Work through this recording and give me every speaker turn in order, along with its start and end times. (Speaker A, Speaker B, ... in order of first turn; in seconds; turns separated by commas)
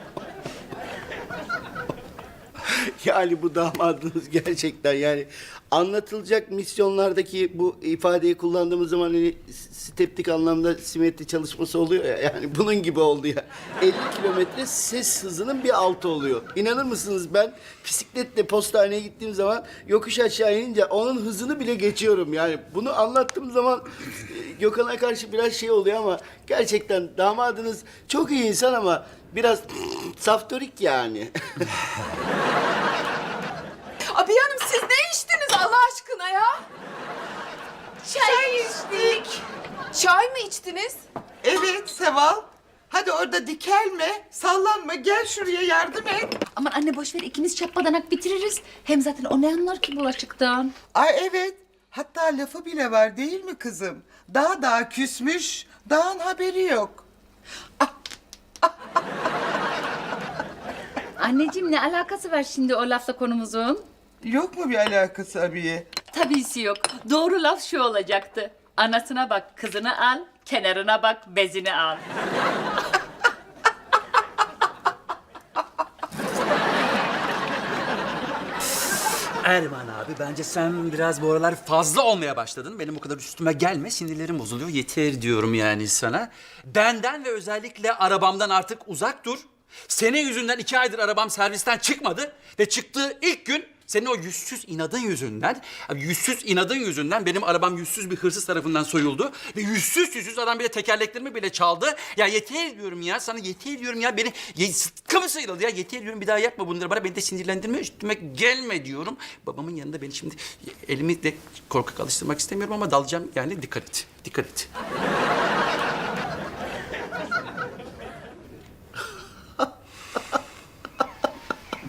Speaker A: 2.6-31.7, Speaker B: 34.1-36.6, Speaker C: 38.0-38.7, Speaker B: 38.0-39.2, Speaker D: 38.2-39.4, Speaker B: 39.9-41.0, Speaker D: 41.4-46.4, Speaker C: 46.5-50.7, Speaker D: 50.9-57.0, Speaker C: 61.2-63.8, Speaker D: 64.2-65.9, Speaker C: 66.1-72.0, Speaker E: 79.4-114.7